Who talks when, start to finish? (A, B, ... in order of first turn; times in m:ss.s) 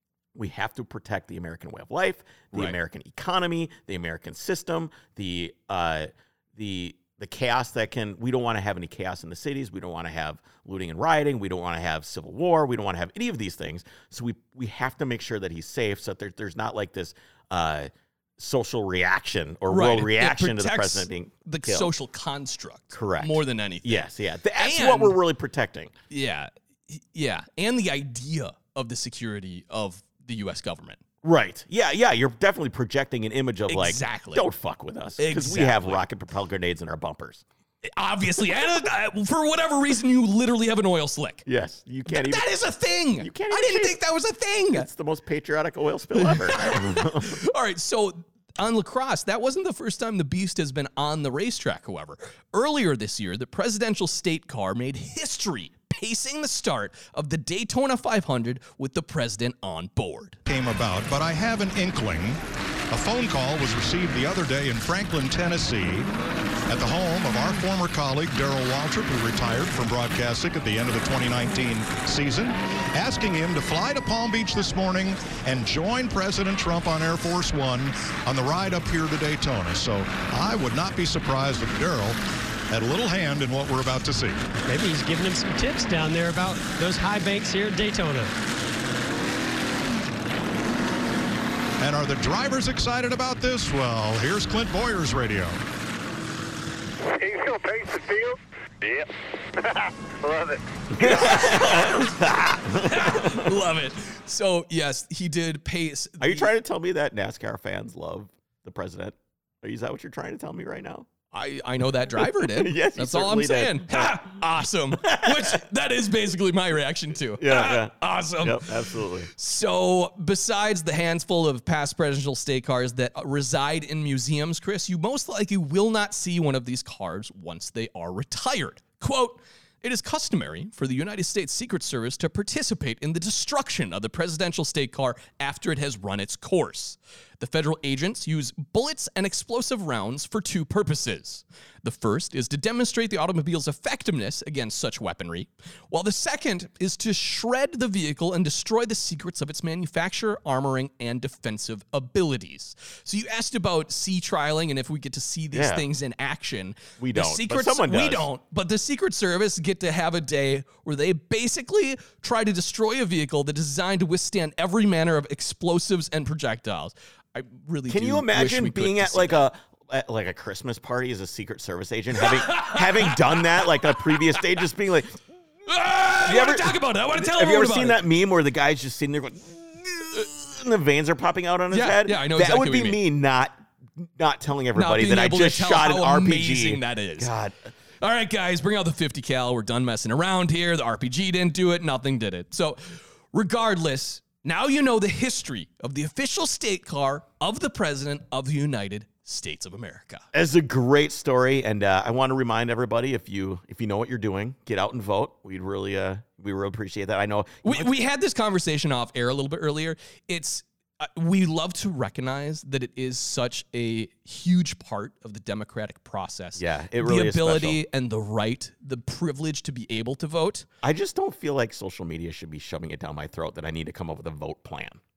0:00.4-0:21.9 A
0:19.7-0:25.2 B
0:22.9-0:25.9 A
0:26.1-0:31.0 B
0:31.2-0:37.4 A
0:33.7-0:34.5 B
0:35.2-0:36.0 B
0:37.8-0:41.4 B
0:41.5-0:42.5 A
0:42.1-0:44.9 B
0:43.2-0:44.0 A
0:44.7-0:47.4 A
0:46.2-1:00.4 B
1:00.5-1:02.4 C
1:02.9-1:06.1 C
1:06.7-1:22.2 C
1:22.7-1:24.5 C
1:24.6-1:28.4 D
1:31.8-1:35.6 C
1:37.0-1:41.2 E
1:41.0-1:43.5 A
1:41.0-1:42.1 B
1:42.8-1:46.5 B
1:46.2-1:51.1 A
1:51.3-1:58.8 B
1:52.2-1:54.4 A
1:55.0-1:55.6 A
1:57.4-1:59.3 A
1:59.3-2:49.5 B
2:35.5-2:35.9 A
2:37.0-2:38.3 A
2:47.9-2:55.2 A
2:52.2-2:54.4 B
2:55.7-2:58.0 B
2:56.2-3:07.7 A
3:01.7-3:03.0 B
3:04.8-3:07.3 B
3:08.0-3:20.2 B
3:20.3-3:28.0 A
3:27.6-3:40.7 B
3:36.6-3:37.8 A
3:40.8-3:45.0 A